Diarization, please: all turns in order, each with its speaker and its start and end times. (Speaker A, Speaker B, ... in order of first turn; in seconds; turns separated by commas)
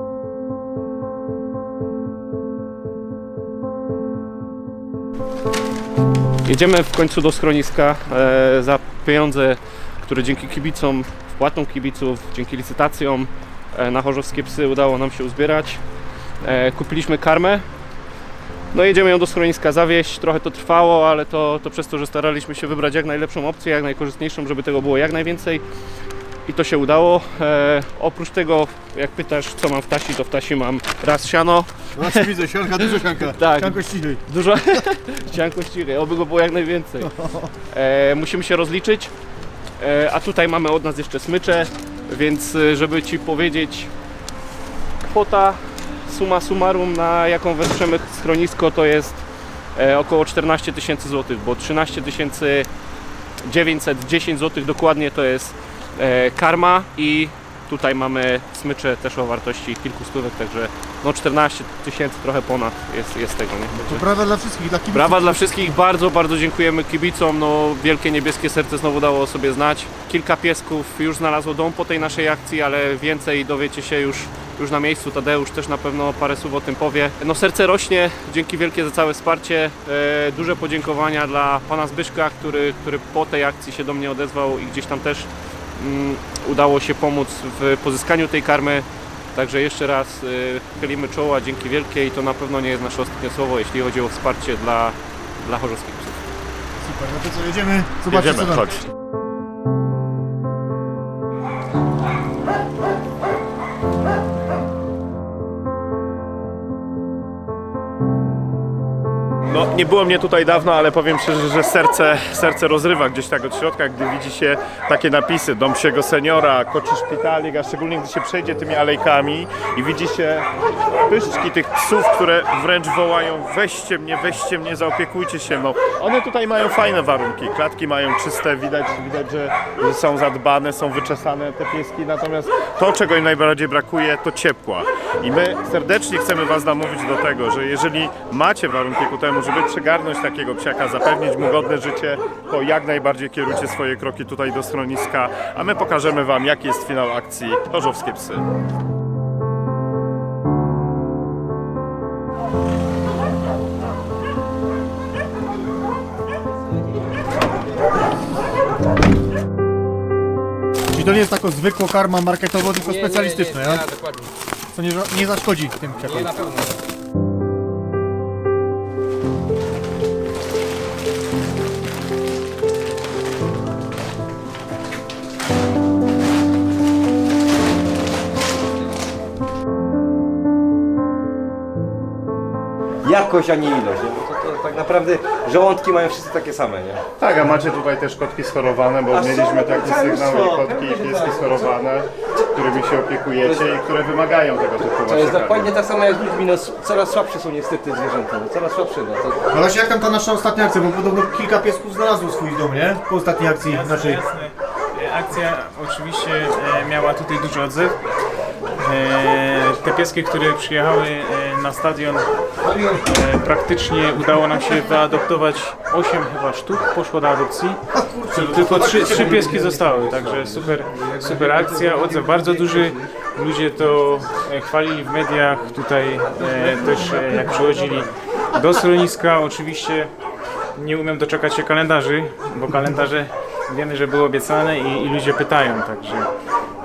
Speaker A: 6.4-15.8, Speaker A: 16.4-17.6, Speaker A: 18.7-25.6, Speaker A: 26.5-32.3, Speaker B: 31.9-34.2, Speaker A: 33.0-37.1, Speaker B: 37.2-37.5, Speaker A: 37.7-39.1, Speaker A: 39.8-43.9, Speaker A: 45.1-49.2, Speaker A: 49.8-52.7, Speaker A: 53.4-64.1, Speaker B: 63.7-65.7, Speaker A: 64.9-96.2, Speaker B: 96.8-98.6, Speaker C: 98.1-98.8, Speaker C: 109.5-120.5, Speaker C: 121.1-148.4, Speaker B: 160.9-163.9, Speaker D: 162.8-164.3, Speaker B: 164.7-166.3, Speaker D: 166.0-166.8, Speaker E: 183.1-187.0, Speaker C: 187.2-195.8, Speaker D: 189.1-191.6, Speaker D: 195.0-197.3, Speaker E: 195.5-199.3, Speaker B: 199.5-204.2, Speaker F: 203.7-208.0, Speaker F: 208.8-212.3, Speaker F: 213.0-217.8, Speaker B: 217.9-218.2, Speaker F: 218.3-230.1, Speaker D: 218.4-220.6, Speaker D: 221.2-222.7, Speaker B: 226.7-228.0, Speaker F: 230.8-236.3